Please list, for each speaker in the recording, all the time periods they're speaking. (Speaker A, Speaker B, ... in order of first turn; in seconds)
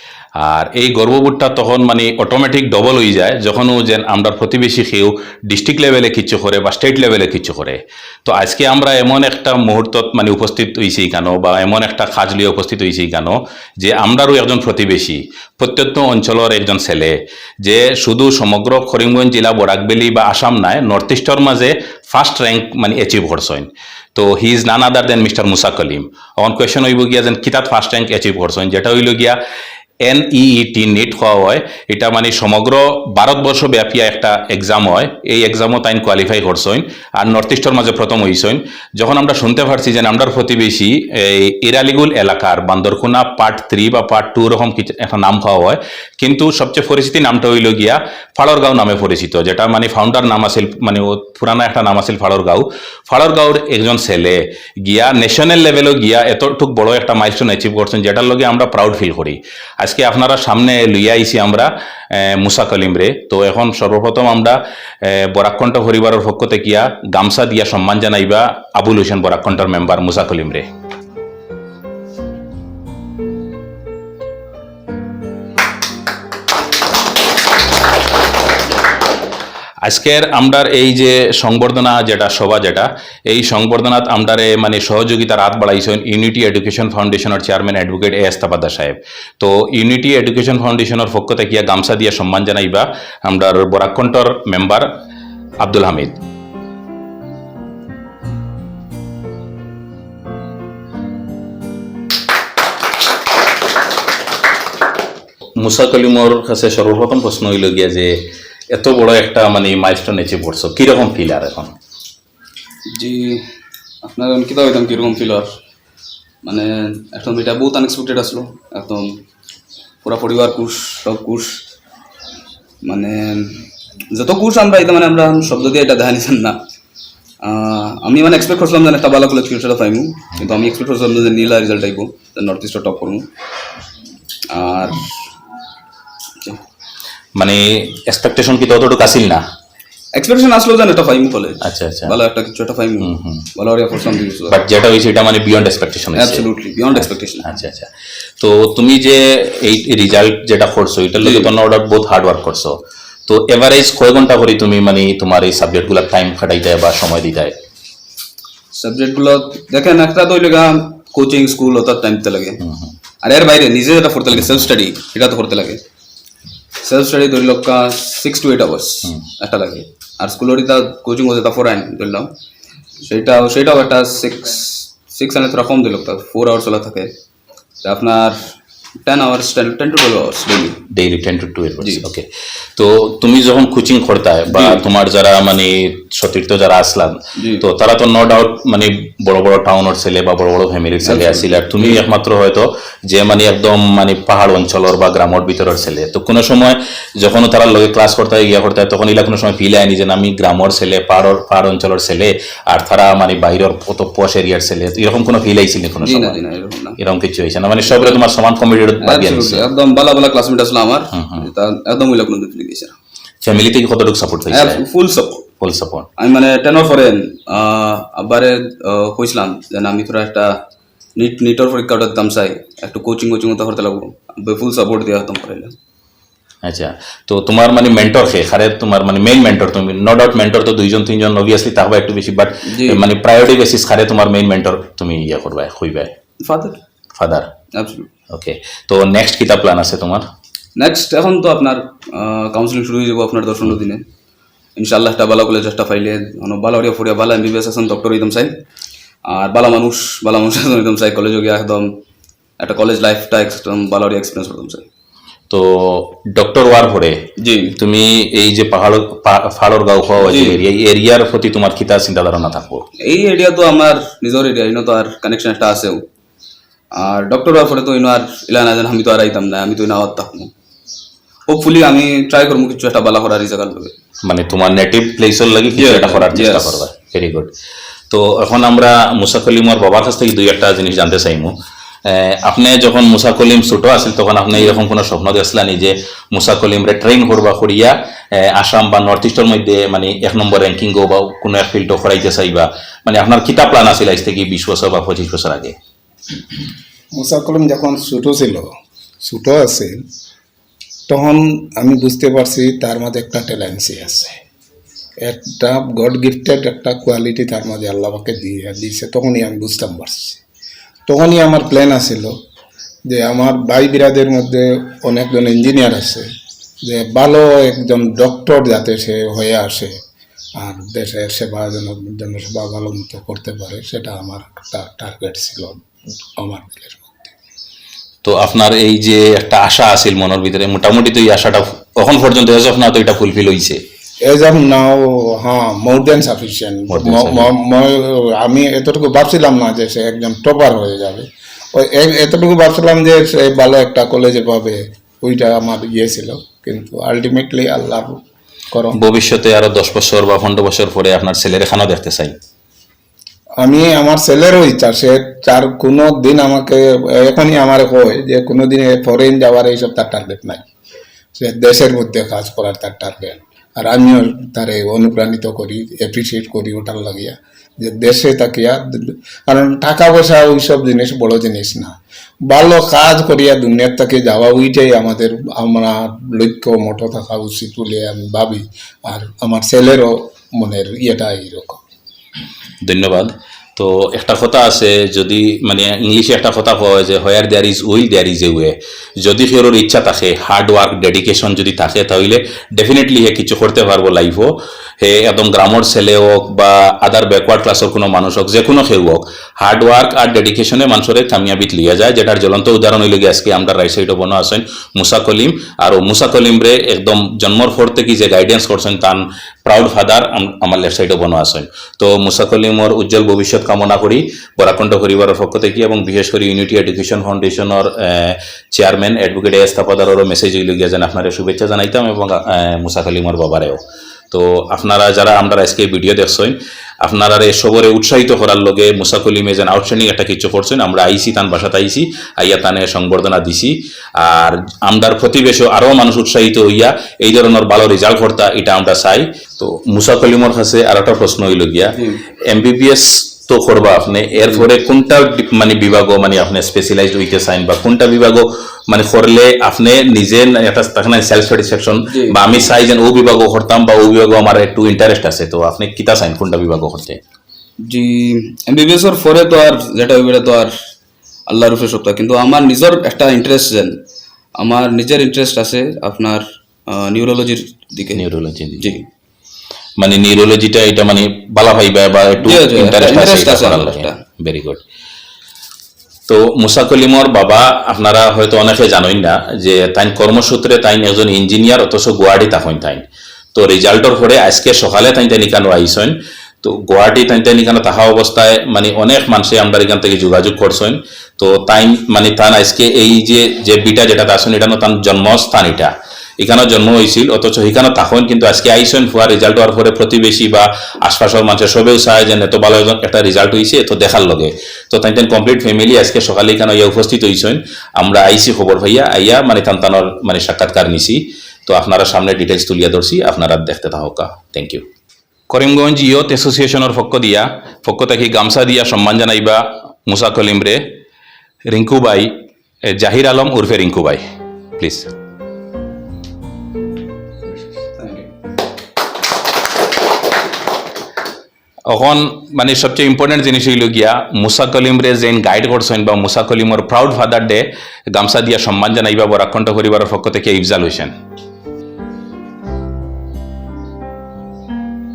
Speaker A: 0.4-29.4, 30.0-70.7, 79.8-94.9, 95.6-96.2, 105.6-108.2, 108.7-111.7, 137.4-139.4, 141.6-142.2, 143.0-143.5, 144.5-157.6, 162.6-162.9, 180.9-206.4, 207.0-209.7, 211.1-211.5, 213.4-214.8, 215.6-216.1, 226.6-236.1, 237.2-237.5, 238.3-240.3, 255.5-262.8, 274.2-277.5, 278.1-281.5, 282.0-295.7, 328.2-333.8, 336.9-337.5, 348.9-352.3, 382.8-457.2, 468.1-469.0, 470.0-474.8, 476.3-514.8, 515.5-520.8, 521.7-522.3, 522.9-524.2, 524.8-525.1, 531.9-541.1
Speaker B: 112.9-113.5, 114.0-115.5, 116.4-119.1, 120.0-121.6, 122.8-126.6, 127.4-133.3, 134.5-135.2, 140.2-144.6, 146.1-147.4, 151.2-151.5, 158.7-162.6, 163.2-165.8, 166.8-172.3, 173.0-177.1, 177.8-178.5, 179.0-180.8, 184.5-184.8, 187.4-187.6, 191.1-192.0, 206.0-207.0, 207.9-208.2, 209.0-212.9, 214.5-215.4, 216.2-220.5, 221.2-225.7, 232.7-233.0, 236.4-236.8, 237.7-238.1, 240.8-244.0, 244.8-248.5, 249.3-251.9, 252.6-254.8, 257.4-257.7, 260.2-260.6, 263.0-266.0, 267.0-270.5, 271.5-273.9, 275.7-276.8, 441.9-442.2, 452.1-452.4, 457.9-460.7, 461.5-464.0, 464.6-468.2, 468.8-469.1, 472.4-474.2, 528.0-528.3
Speaker C: 297.1-298.7, 299.2-300.0, 301.1-304.4, 305.2-310.4, 311.1-312.3, 313.1-316.2, 316.8-319.9, 320.6-327.3, 334.2-348.2, 348.7-349.0, 353.6-360.7, 361.4-371.9, 372.5-381.8